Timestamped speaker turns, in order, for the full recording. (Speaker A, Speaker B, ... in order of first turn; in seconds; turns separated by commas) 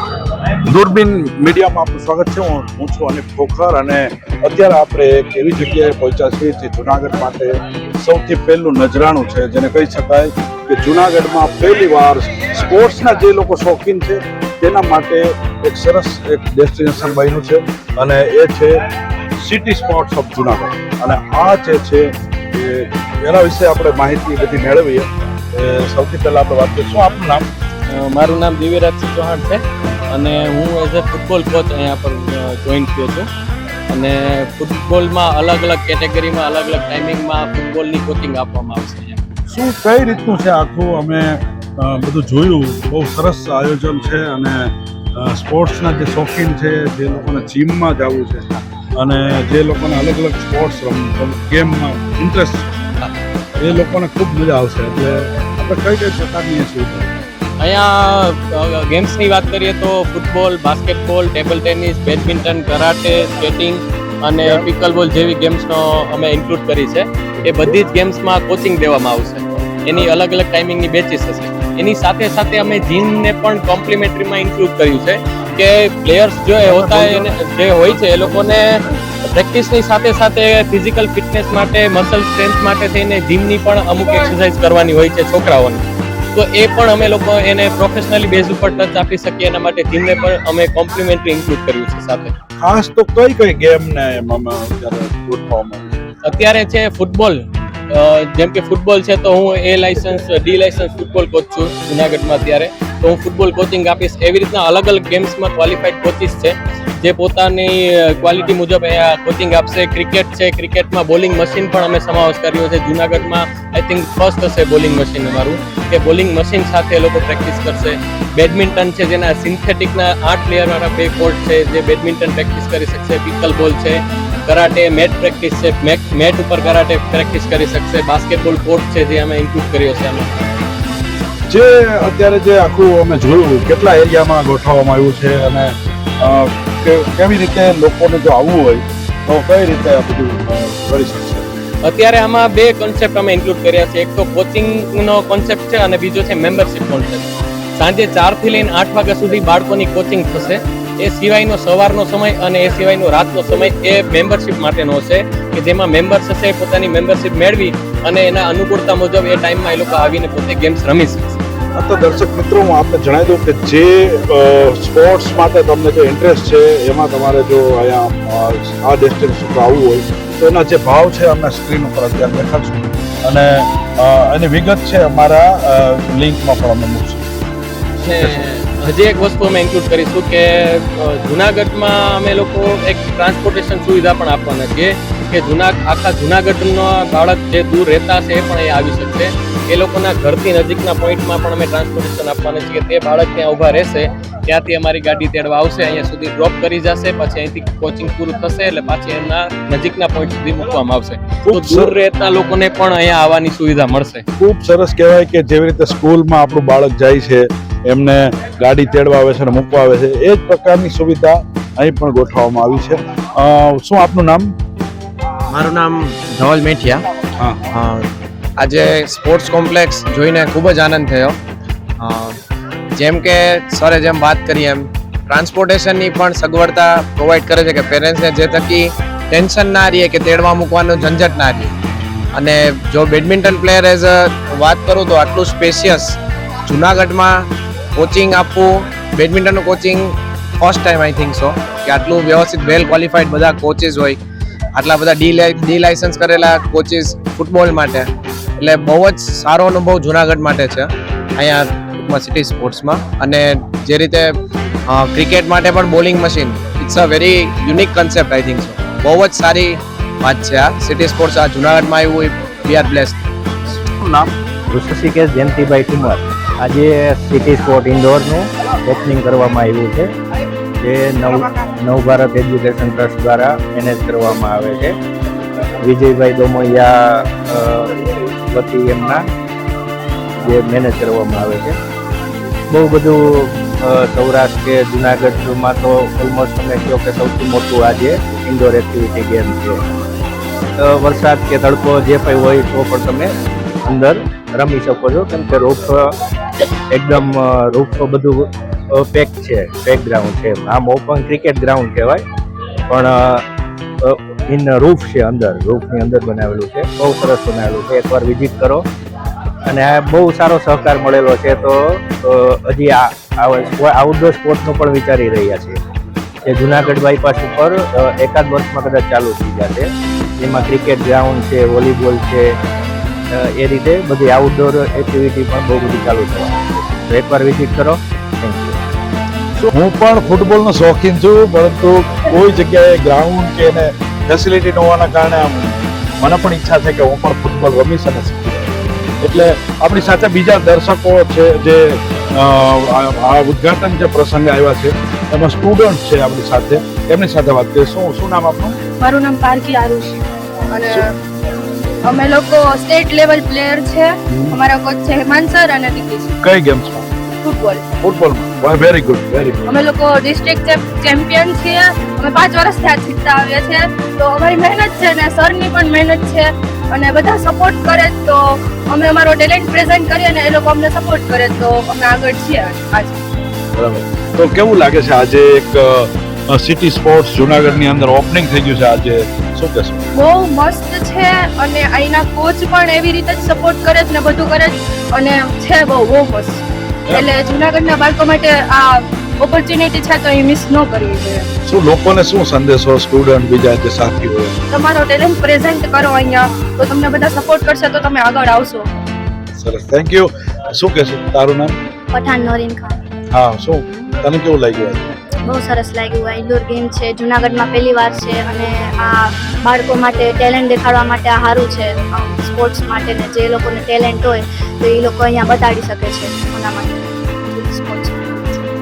Speaker A: 0.6-18.8, Speaker A: 19.4-27.5, Speaker B: 27.9-33.3, Speaker B: 33.9-39.2, Speaker A: 39.5-48.5, Speaker A: 49.0-52.6, Speaker A: 53.6-57.1, Speaker B: 57.6-78.7, Speaker A: 67.4-67.7, Speaker A: 76.6-77.3, Speaker A: 77.9-78.8, Speaker B: 79.2-85.8, Speaker B: 86.3-92.3, Speaker A: 92.6-96.0, Speaker B: 96.2-130.3, Speaker A: 131.5-141.6, Speaker B: 141.8-161.4, Speaker A: 161.7-177.2, Speaker B: 178.0-204.2, Speaker A: 201.4-201.9, Speaker A: 204.4-214.5, Speaker C: 215.5-217.0, Speaker C: 217.7-221.4, Speaker C: 222.0-222.3, Speaker C: 222.9-231.7, Speaker C: 232.3-237.4, Speaker C: 238.0-244.2, Speaker C: 244.7-248.1, Speaker C: 248.6-254.3, Speaker C: 254.9-263.2, Speaker A: 264.0-264.3, Speaker D: 264.7-270.1, Speaker D: 270.8-274.9, Speaker D: 275.8-277.9, Speaker D: 278.5-279.2, Speaker D: 280.4-281.8, Speaker D: 282.7-289.8, Speaker D: 290.8-293.3, Speaker D: 293.9-296.1, Speaker D: 296.9-302.2, Speaker D: 302.9-303.4, Speaker D: 304.0-308.8, Speaker D: 309.7-315.8, Speaker D: 316.4-319.9, Speaker D: 320.4-322.5, Speaker D: 323.4-328.7, Speaker A: 329.6-338.6, Speaker A: 339.2-348.8, Speaker E: 349.0-351.1, Speaker E: 352.0-356.3, Speaker A: 354.3-354.6, Speaker A: 356.4-357.0, Speaker E: 357.4-357.8, Speaker A: 358.0-359.6, Speaker E: 359.7-373.2, Speaker A: 373.7-380.0, Speaker E: 380.1-386.6, Speaker E: 387.1-391.5, Speaker A: 391.6-394.6, Speaker E: 394.7-398.9, Speaker A: 399.6-401.7, Speaker F: 402.1-403.0, Speaker A: 403.3-405.1, Speaker F: 405.4-418.6